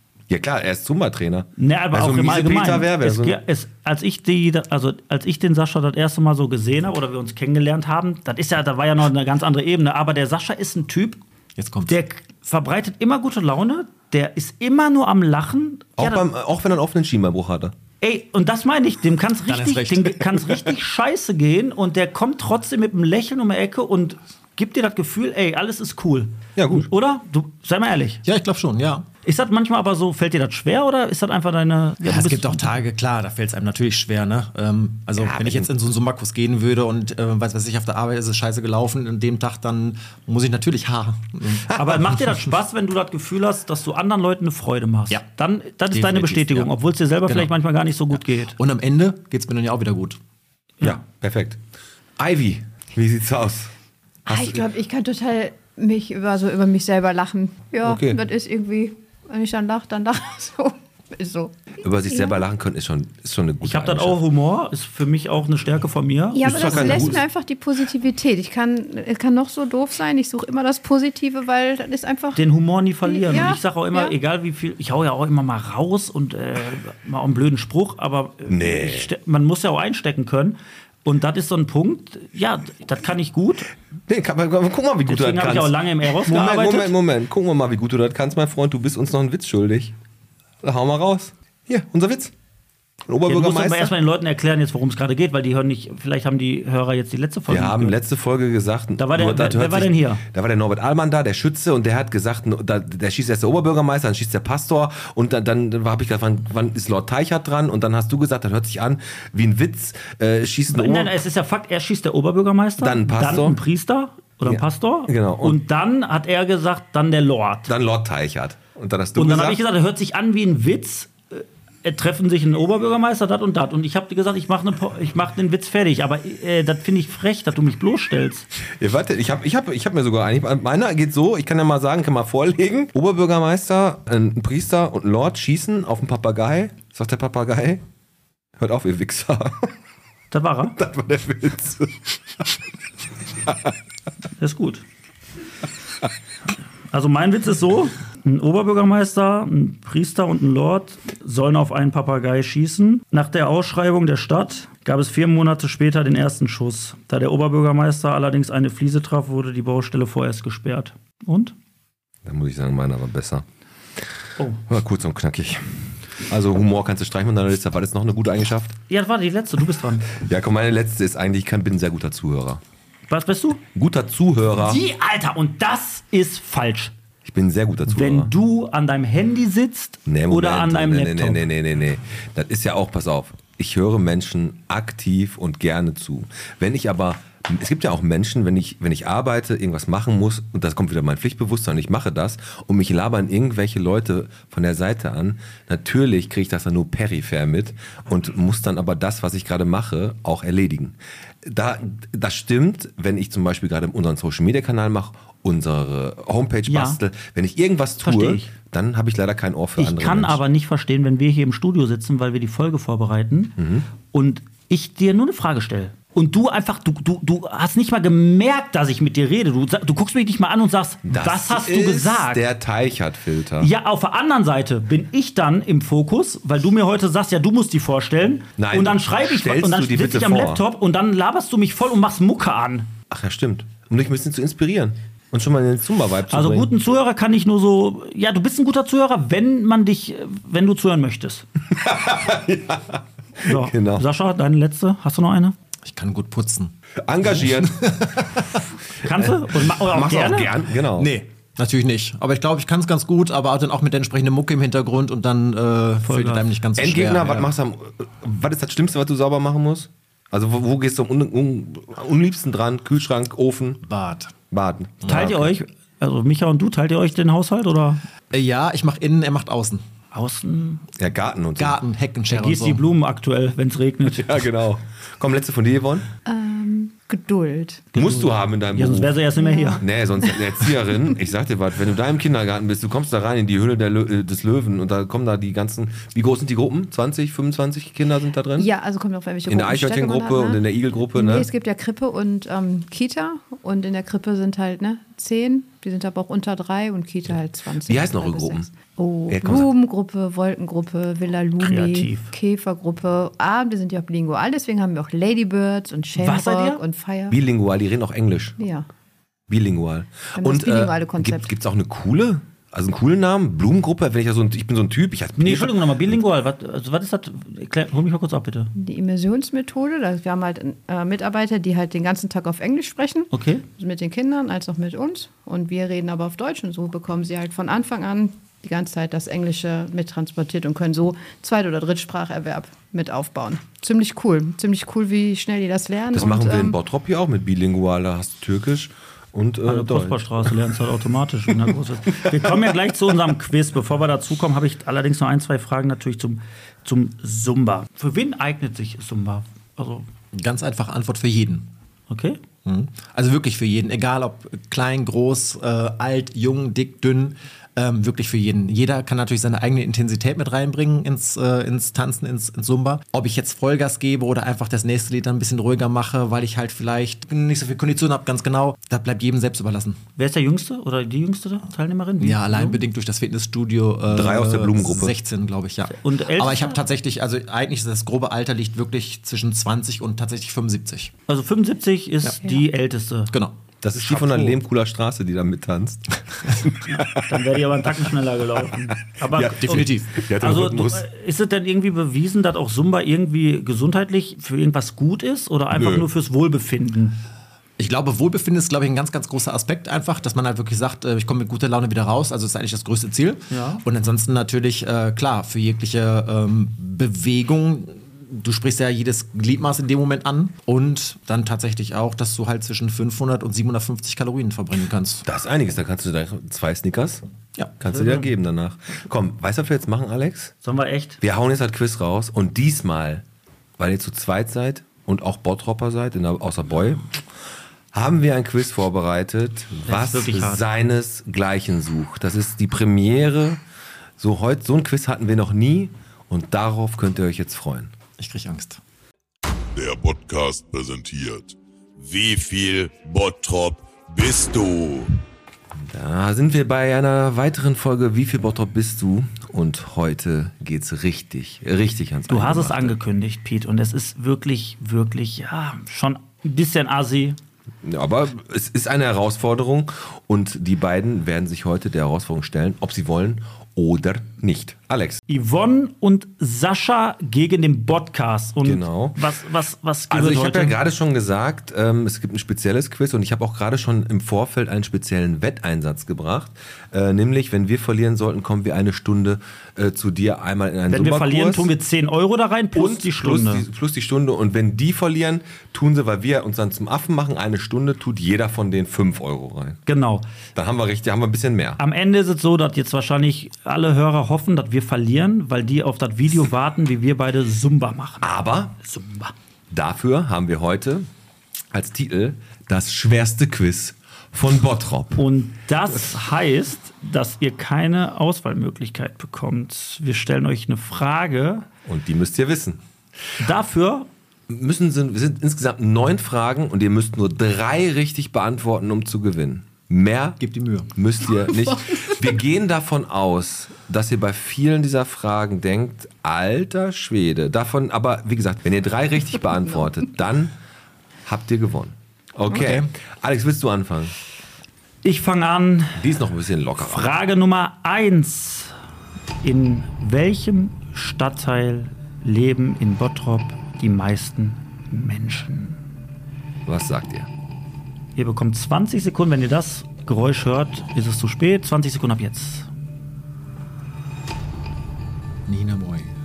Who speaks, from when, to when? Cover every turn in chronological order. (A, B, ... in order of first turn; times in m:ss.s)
0:00.3-0:03.4 A
0:01.6-0:11.2 B
0:11.6-0:12.0 C
0:11.9-0:16.2 B
0:16.0-0:17.7 A
0:18.0-0:28.2 B
0:19.4-0:20.2 C
0:26.6-0:26.9 A
0:28.2-0:29.0 C
0:29.2-0:32.7 B
0:32.0-0:42.4 C
0:35.2-0:35.7 A
0:41.7-0:42.0 A
0:41.7-0:48.6 B
0:45.9-0:46.7 C
0:47.2-0:47.5 C
0:48.6-0:50.2 C
0:50.8-0:51.6 A
0:52.2-0:53.7 A
0:54.3-0:54.6 A
0:54.3-1:02.4 D
0:57.8-0:58.2 A
1:01.8-1:04.2 A
1:03.6-1:07.2 B
1:06.3-1:12.4 D
1:06.4-1:07.2 A
1:12.3-1:23.7 B
1:13.0-1:14.1 D
1:18.4-1:19.1 A
1:24.1-1:29.9 A
1:25.0-1:27.0 B
1:30.6-1:32.3 A
1:33.0-1:33.9 A
1:33.3-1:38.0 B
1:37.5-1:51.2 A
1:39.0-1:40.2 B
1:50.7-1:57.7 B
1:52.8-1:53.6 A
1:54.4-1:55.6 A
1:57.7-1:59.6 A
1:59.2-2:08.5 B
2:08.7-2:17.8 A
2:18.6-2:19.7 A
2:20.3-2:20.8 B
2:20.8-2:22.5 A
2:23.4-2:23.7 A
2:24.4-2:24.8 B
2:26.9-2:41.5 B
2:42.2-2:43.4 A
2:44.7-2:48.8 A
2:48.9-2:50.1 B
2:50.1-2:52.6 A
2:53.1-2:53.6 B
2:53.7-2:54.8 A
2:54.6-2:56.9 B
2:57.2-2:58.3 A
2:57.9-3:01.4 B
3:00.0-3:30.4 A
3:26.7-3:27.0 B
3:28.0-3:28.5 B
3:29.8-3:33.6 B
3:33.6-3:33.9 A
3:34.1-3:42.4 B
3:41.0-3:43.7 A
3:43.6-3:52.9 B
3:48.6-3:50.6 A
3:53.1-3:56.7 A
3:56.3-4:01.4 B
4:01.7-4:04.0 A
4:03.4-4:05.5 B
4:05.8-4:06.7 C
4:07.0-4:08.0 A
4:07.4-4:08.4 C
4:09.0-4:10.5 B
4:09.1-4:11.1 A
4:10.9-4:17.5 C
4:16.0-4:16.5 B
4:16.8-4:23.8 A
4:23.8-4:24.3 C
4:24.5-4:25.6 A
4:25.0-4:28.0 B
4:28.3-4:29.8 C
4:30.1-4:30.8 B
4:31.0-4:31.8 A
4:31.6-4:32.8 C
4:32.3-4:34.5 B
4:34.1-4:36.1 A
4:36.2-4:37.9 D
4:37.9-4:39.8 B
4:37.9-4:39.1 A
4:39.3-4:40.5 D
4:39.8-4:48.7 A
4:48.6-5:07.4 D
4:49.5-4:51.5 A
4:57.8-4:58.7 A
4:59.3-4:59.7 A
5:01.6-5:02.3 B
5:06.1-5:06.8 B
5:07.3-5:08.6 A
5:08.6-5:08.9 D
5:09.5-5:16.2 A
5:10.4-5:11.5 D
5:15.4-5:18.7 B
5:18.7-5:36.8 D
5:23.3-5:23.6 B
5:36.1-5:40.6 A
5:39.7-5:50.1 B
5:50.3-5:51.7 C
5:52.1-5:52.4 B
5:52.6-6:10.0 C
6:10.2-6:12.8 B
6:12.2-6:21.1 C
6:14.1-6:15.2 A
6:15.9-6:16.8 B
6:21.3-6:23.3 B
6:23.3-6:23.6 C
6:23.8-6:27.2 A
6:24.1-6:24.5 C
6:27.2-6:37.2 B
6:29.3-6:31.1 A
6:29.5-6:30.2 C
6:35.7-6:36.1 A
6:37.8-6:55.2 C
6:43.5-6:43.8 B
6:55.2-6:57.2 A
6:57.8-7:00.5 A
6:57.9-6:58.3 B
7:00.6-7:01.2 B
7:01.2-7:03.2 A
7:03.8-7:07.2 A
7:07.9-7:13.6 A
7:09.8-7:10.6 B
7:14.2-7:17.9 A
7:18.2-7:18.8 C
7:19.7-7:25.2 E
7:25.8-7:33.0 A
7:32.3-7:37.4 B
7:37.8-7:45.2 A
7:45.3-7:50.8 B
7:48.6-7:49.2 A
7:50.1-8:01.7 A
8:00.9-8:03.6 B
8:02.7-8:09.8 A
8:09.8-8:10.3 B
8:10.5-8:11.8 A
8:11.8-8:18.3 B
8:18.2-8:18.8 A
8:18.8-8:19.3 B
8:19.7-8:21.1 A
8:21.7-8:25.2 A
8:25.2-8:31.7 B
8:31.8-8:32.8 A
8:33.4-8:34.1 B
8:34.5-8:40.4 A
8:40.4-8:40.9 C
8:40.9-8:50.5 A
8:51.2-8:54.1 A
8:52.5-8:52.9 C
8:55.0-8:56.0 B
8:56.0-8:57.1 A
8:56.8-8:58.7 B
8:59.4-9:05.8 B
9:06.6-9:07.3 A
9:08.2-9:12.7 B
9:15.5-9:16.1 C